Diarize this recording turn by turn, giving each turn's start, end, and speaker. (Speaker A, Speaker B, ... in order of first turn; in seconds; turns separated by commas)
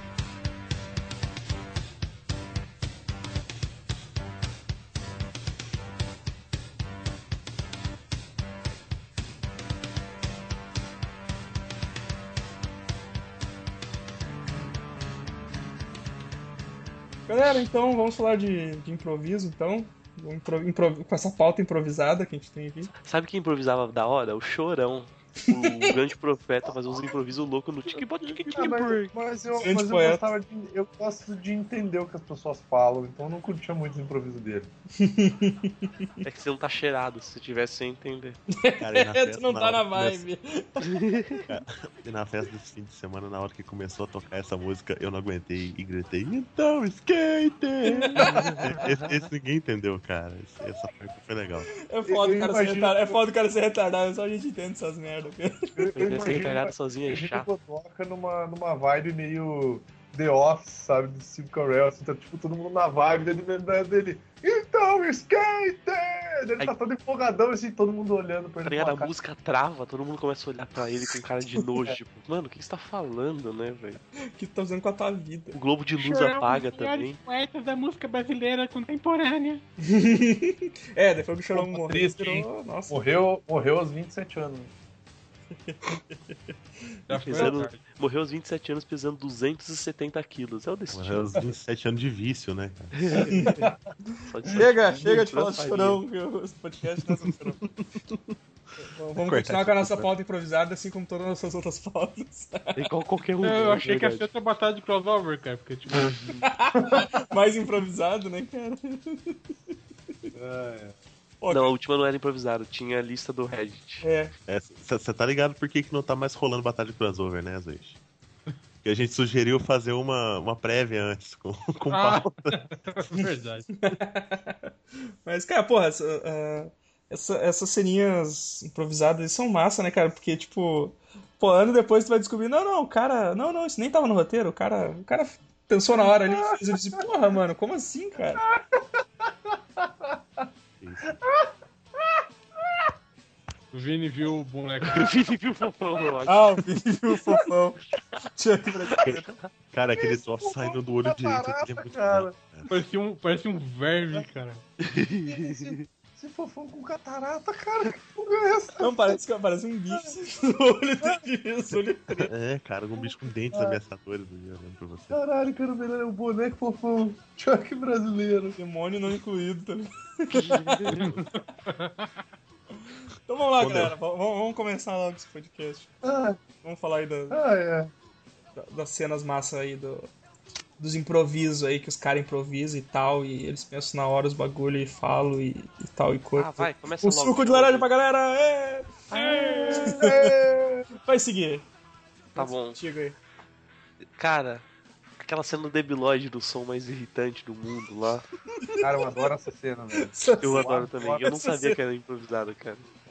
Speaker A: 17.3-22.9, Speaker B: 23.0-29.1, Speaker A: 25.5-25.9, Speaker C: 26.9-27.1, Speaker C: 28.5-34.7, Speaker A: 29.6-30.3, Speaker A: 35.0-36.1, Speaker B: 36.2-38.4, Speaker A: 38.5-41.5, Speaker D: 38.8-40.3, Speaker B: 40.8-41.4, Speaker D: 41.5-51.7, Speaker A: 47.9-48.2, Speaker B: 48.4-49.1, Speaker A: 51.9-56.0, Speaker C: 52.0-53.2, Speaker C: 55.8-69.1, Speaker B: 56.0-57.5, Speaker B: 68.6-74.0, Speaker A: 74.3-75.6, Speaker B: 75.5-77.2, Speaker E: 76.0-79.6, Speaker A: 79.8-83.0, Speaker C: 81.5-84.7, Speaker A: 85.6-86.4, Speaker E: 87.1-87.8, Speaker B: 87.2-91.4, Speaker A: 87.3-87.6, Speaker D: 90.9-93.2, Speaker B: 93.0-93.6, Speaker A: 93.3-93.7, Speaker C: 93.5-93.8, Speaker B: 94.2-96.0, Speaker A: 94.5-97.6, Speaker D: 97.9-98.3, Speaker A: 98.8-102.8, Speaker D: 99.2-100.1, Speaker B: 102.8-104.3, Speaker E: 103.4-106.1, Speaker B: 106.1-106.4, Speaker A: 106.4-109.4, Speaker C: 106.8-107.2, Speaker C: 110.3-110.9, Speaker A: 111.4-111.7, Speaker B: 111.5-114.0, Speaker A: 114.0-114.3, Speaker D: 114.5-118.0, Speaker D: 118.8-122.5, Speaker E: 121.9-123.7, Speaker A: 123.8-124.7, Speaker A: 125.2-138.4, Speaker C: 135.9-136.4, Speaker C: 139.8-140.4, Speaker D: 140.8-141.2, Speaker C: 141.1-141.5, Speaker C: 142.1-142.9, Speaker E: 143.7-145.1, Speaker B: 144.9-146.6, Speaker A: 146.2-147.8, Speaker A: 148.3-149.3, Speaker D: 149.7-152.7, Speaker C: 149.9-152.3, Speaker E: 152.7-154.6, Speaker B: 154.8-155.8, Speaker C: 155.2-159.2, Speaker A: 158.8-162.3, Speaker D: 162.2-165.2, Speaker C: 162.9-163.8, Speaker C: 165.1-168.6, Speaker A: 168.6-171.1, Speaker B: 170.5-170.8, Speaker E: 170.9-172.1, Speaker A: 173.2-175.9, Speaker D: 173.6-173.9, Speaker C: 176.0-176.4, Speaker A: 176.6-177.4, Speaker C: 177.3-177.9, Speaker A: 178.6-180.1, Speaker A: 180.8-189.1, Speaker B: 186.3-187.9, Speaker C: 189.1-190.9, Speaker B: 189.2-190.0, Speaker A: 189.7-190.3, Speaker A: 190.9-191.7, Speaker B: 192.3-192.8, Speaker A: 192.3-193.2, Speaker B: 194.2-194.6, Speaker B: 195.2-198.2, Speaker A: 198.5-198.8, Speaker C: 198.8-201.3, Speaker A: 199.9-200.7, Speaker B: 200.4-202.9, Speaker A: 201.2-201.7